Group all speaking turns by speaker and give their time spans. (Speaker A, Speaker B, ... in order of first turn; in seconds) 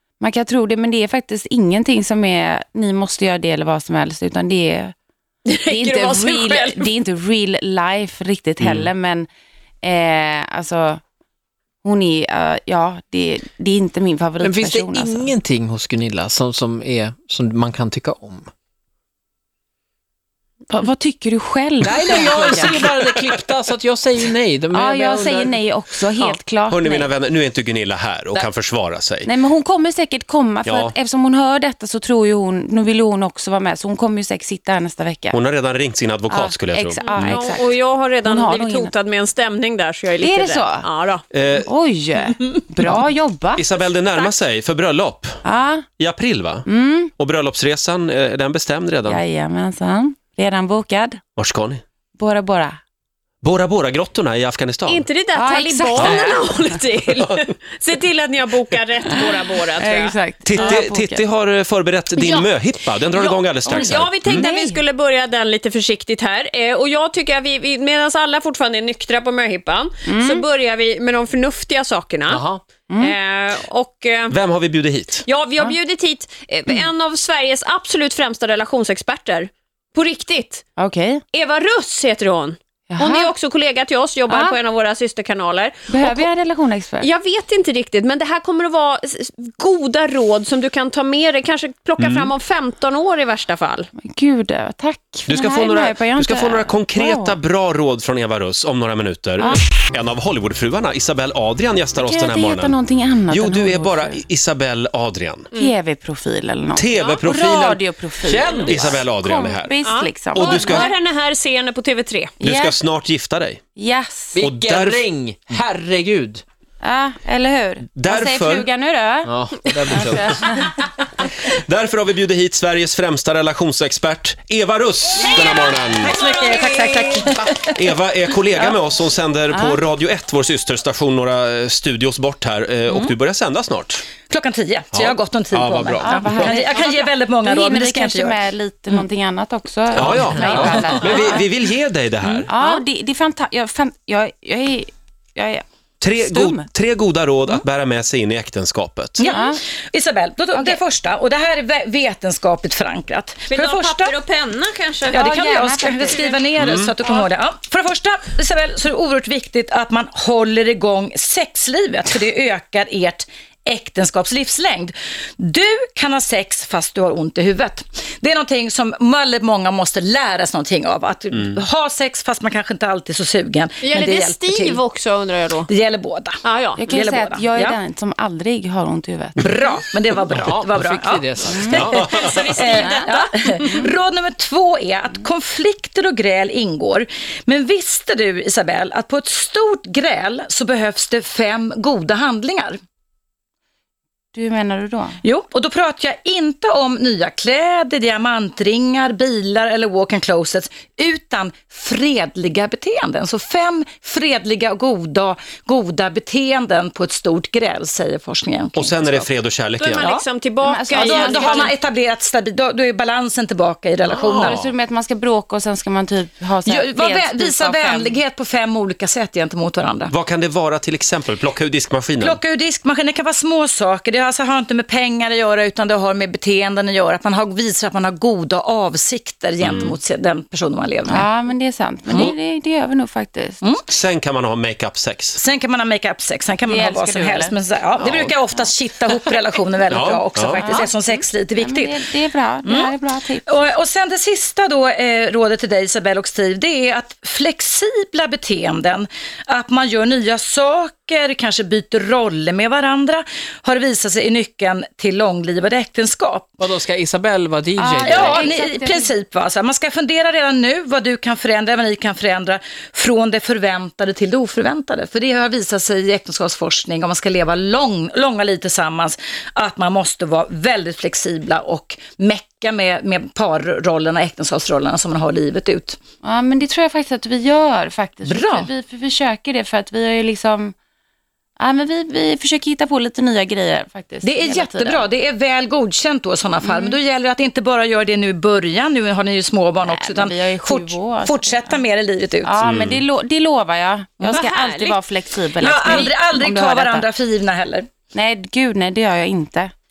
Speaker A: 0.2-4.9, 5.7-9.3, 9.8-11.0, 11.8-15.3, 20.7-22.9, 24.7-27.1, 29.2-35.4, 36.3-38.9, 40.2-40.9, 41.6-43.6, 45.4-45.9, 46.6-47.1, 49.1-51.2, 52.2-52.8, 55.3-56.7, 59.2-61.2, 63.6-64.8, 70.1-70.4, 72.9-73.2, 80.8-81.2, 82.9-83.3, 84.3-84.6, 85.9-87.1, 94.0-97.4, 102.0-104.2, 105.5-110.9, 112.4-112.8, 113.8-114.4, 116.8-119.4, 119.9-120.5, 129.5-129.8, 136.0-141.4, 142.3-145.6, 146.1-146.7, 149.3-149.6, 150.5-150.8, 155.1-156.4, 176.8-179.7, 181.4-182.0, 182.7-183.9, 194.3-195.2, 210.6-211.8, 214.4-218.2, 231.1-233.6, 236.6-238.7, 240.6-243.6, 257.8-259.1, 276.2-280.7, 281.6-285.1, 286.6-287.0, 289.8-291.8, 292.4-297.1, 298.1-299.7
Speaker B: 5.5-6.9, 37.0-41.2, 54.9-60.8, 62.2-62.5, 63.1-72.4, 73.0-74.3, 75.2-80.6, 81.3-86.3, 87.0-93.9, 106.9-107.2, 109.8-112.3, 125.2-127.4, 142.5-142.8, 153.5-155.2, 155.9-156.3, 173.8-175.7, 176.4-176.8, 182.1-183.8, 209.8-211.7, 294.3-295.0, 295.9-296.1
Speaker C: 8.6-8.9, 26.3-29.3, 30.6-30.9, 35.3-37.4, 41.3-41.7, 43.5-45.4, 46.0-49.2, 51.4-51.8, 53.4-55.1, 55.9-56.2, 60.4-64.4, 74.3-75.2, 92.0-92.3, 95.3-102.8, 103.3-105.5, 106.7-107.8, 108.7-109.7, 110.3-110.9, 112.4-113.6, 114.4-115.0, 117.9-118.7, 121.4-126.1, 127.3-134.0, 134.9-136.5, 139.9-142.5, 146.0-149.3, 156.6-156.9, 181.8-182.3, 208.7-210.1, 214.2-214.6, 220.1-222.4, 229.6-230.0, 233.9-235.4, 239.9-240.7, 292.6-293.0
Speaker D: 14.4-18.5, 21.8-25.6, 72.3-72.6, 108.2-109.0, 114.3-116.4, 119.2-120.6, 140.1-140.9, 180.3-182.0, 256.6-258.5
Speaker E: 126.0-127.7, 132.9-133.1, 134.3-138.4, 149.2-154.1, 155.1-174.8, 175.7-177.8, 179.4-192.8, 195.2-209.3, 210.9-214.6, 216.7-220.1, 222.2-231.3, 235.3-242.0, 242.6-256.6, 258.0-276.0, 278.2-278.7, 284.2-292.5, 295.6-297.9